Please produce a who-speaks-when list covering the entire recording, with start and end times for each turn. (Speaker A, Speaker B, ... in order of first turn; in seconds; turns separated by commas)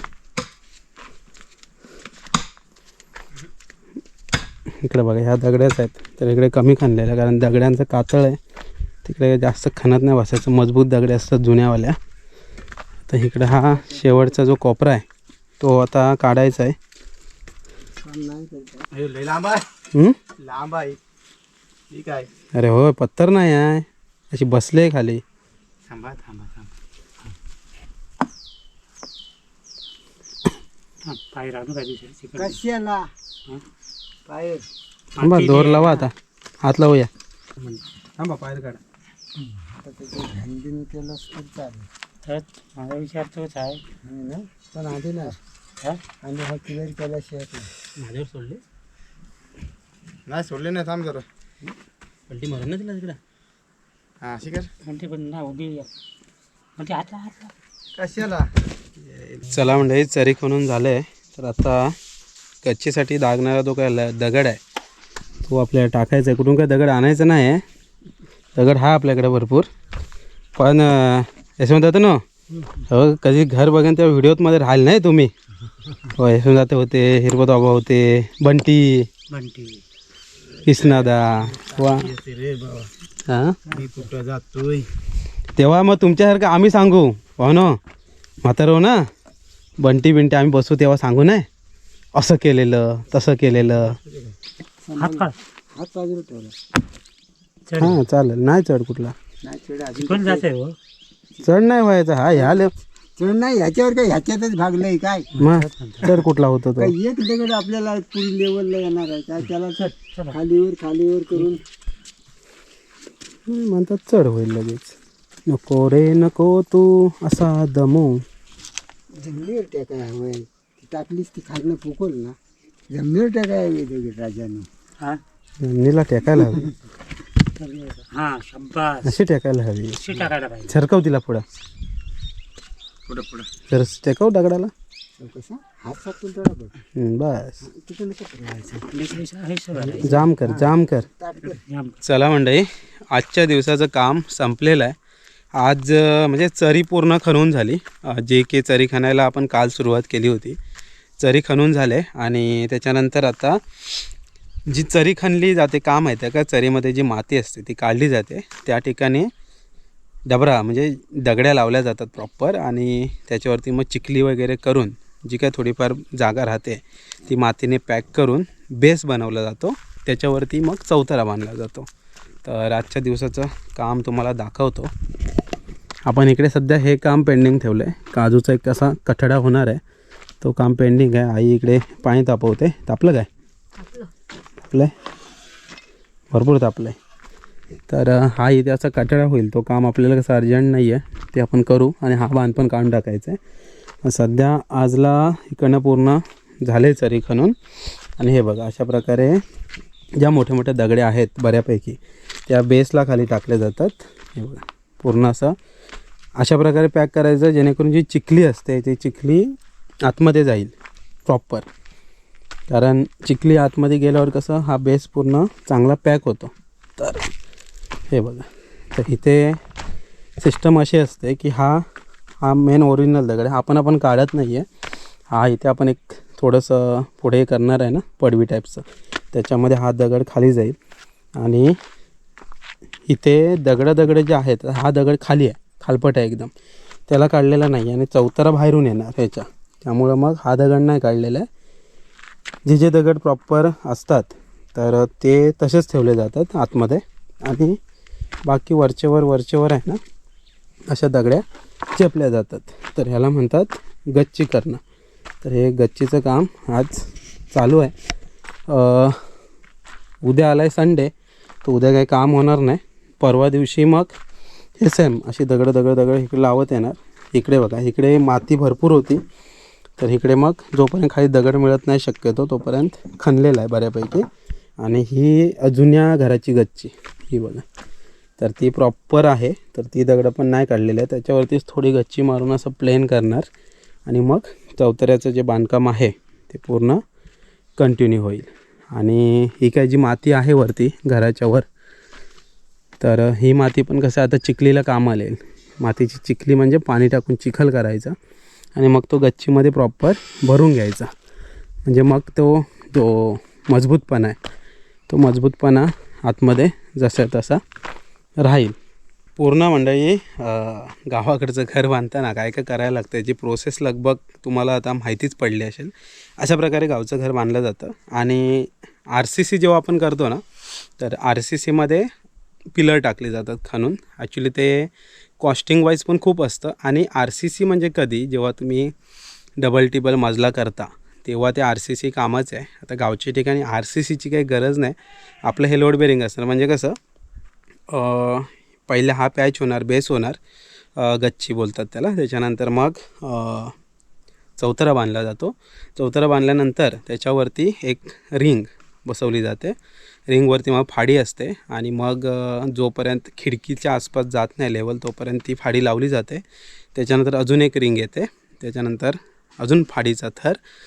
Speaker A: 4.8-8.4, Speaker A: 9.0-12.0, Speaker A: 13.1-15.0, Speaker A: 15.6-16.8, Speaker B: 18.0-18.9, Speaker C: 19.0-19.7, Speaker A: 19.9-20.2, Speaker C: 20.4-21.0, Speaker C: 21.9-22.3, Speaker A: 22.5-25.2, Speaker C: 25.9-26.6, Speaker D: 31.0-32.6, Speaker B: 32.4-33.1, Speaker B: 34.2-34.7, Speaker D: 35.1-36.1, Speaker A: 35.2-37.1, Speaker A: 37.6-38.8, Speaker B: 39.8-41.9, Speaker D: 42.2-43.8, Speaker B: 44.0-45.4, Speaker B: 46.2-47.7, Speaker A: 48.0-48.6, Speaker C: 50.3-51.2, Speaker A: 52.3-53.2, Speaker C: 54.2-54.7, Speaker D: 54.8-55.9, Speaker D: 56.8-57.5, Speaker B: 58.0-58.4, Speaker A: 59.3-62.0, Speaker A: 62.6-64.6, Speaker A: 65.4-67.6, Speaker A: 68.5-69.7, Speaker A: 70.5-72.2, Speaker A: 72.9-75.3, Speaker A: 76.1-79.1, Speaker D: 79.3-79.8, Speaker A: 80.6-82.1, Speaker C: 82.1-82.9, Speaker A: 83.2-83.6, Speaker C: 83.7-84.9, Speaker A: 85.6-87.8, Speaker A: 88.4-89.0, Speaker A: 89.8-91.5, Speaker A: 92.1-94.0, Speaker B: 94.8-96.5, Speaker D: 95.0-95.3, Speaker D: 97.7-98.0, Speaker A: 97.8-99.1, Speaker B: 99.4-100.5, Speaker D: 100.0-100.8, Speaker A: 101.4-102.7, Speaker B: 102.3-105.3, Speaker D: 105.4-106.2, Speaker A: 105.4-106.9, Speaker B: 106.8-111.6, Speaker D: 110.1-110.4, Speaker A: 113.5-115.0, Speaker A: 115.5-118.2, Speaker B: 119.2-122.4, Speaker B: 122.9-124.7, Speaker A: 125.6-126.7, Speaker D: 127.5-129.1, Speaker A: 129.0-131.4, Speaker D: 130.0-130.7, Speaker A: 133.7-134.7, Speaker B: 135.2-136.7, Speaker A: 136.9-137.6, Speaker B: 137.7-138.9, Speaker D: 138.9-140.6, Speaker B: 139.9-140.7, Speaker A: 140.0-141.1, Speaker B: 141.2-141.6, Speaker D: 141.5-142.0, Speaker A: 142.0-144.9, Speaker A: 145.6-150.6, Speaker A: 151.2-154.0, Speaker A: 154.7-159.3, Speaker A: 160.3-171.9, Speaker A: 172.4-174.9, Speaker A: 176.1-179.8, Speaker A: 180.4-183.3, Speaker A: 186.3-187.0, Speaker A: 187.9-193.4, Speaker A: 194.0-197.5, Speaker A: 198.2-199.4, Speaker A: 200.2-205.5, Speaker A: 206.4-209.5, Speaker A: 210.1-210.7, Speaker A: 211.2-211.7, Speaker A: 212.7-217.3, Speaker A: 218.1-219.6, Speaker A: 220.4-221.8, Speaker A: 222.4-224.7, Speaker A: 225.3-230.8, Speaker A: 231.4-231.8, Speaker A: 233.1-236.5, Speaker A: 237.1-241.5, Speaker A: 242.7-247.8, Speaker A: 248.4-250.0, Speaker A: 250.9-254.8, Speaker A: 255.4-257.9, Speaker A: 258.7-259.2, Speaker A: 260.2-261.1, Speaker A: 261.6-264.1, Speaker A: 264.8-269.2, Speaker A: 270.0-274.2, Speaker A: 274.8-277.6, Speaker A: 278.4-283.5, Speaker A: 284.1-287.0, Speaker A: 287.8-291.7, Speaker A: 293.0-298.1, Speaker A: 298.8-301.1, Speaker A: 301.9-304.4, Speaker A: 305.1-307.6, Speaker A: 308.4-308.7, Speaker A: 309.4-320.4, Speaker A: 321.0-322.1, Speaker A: 322.7-328.9, Speaker A: 329.6-337.0, Speaker A: 337.9-340.4, Speaker A: 341.0-343.7, Speaker A: 344.6-349.8, Speaker A: 350.3-356.4, Speaker A: 356.9-360.6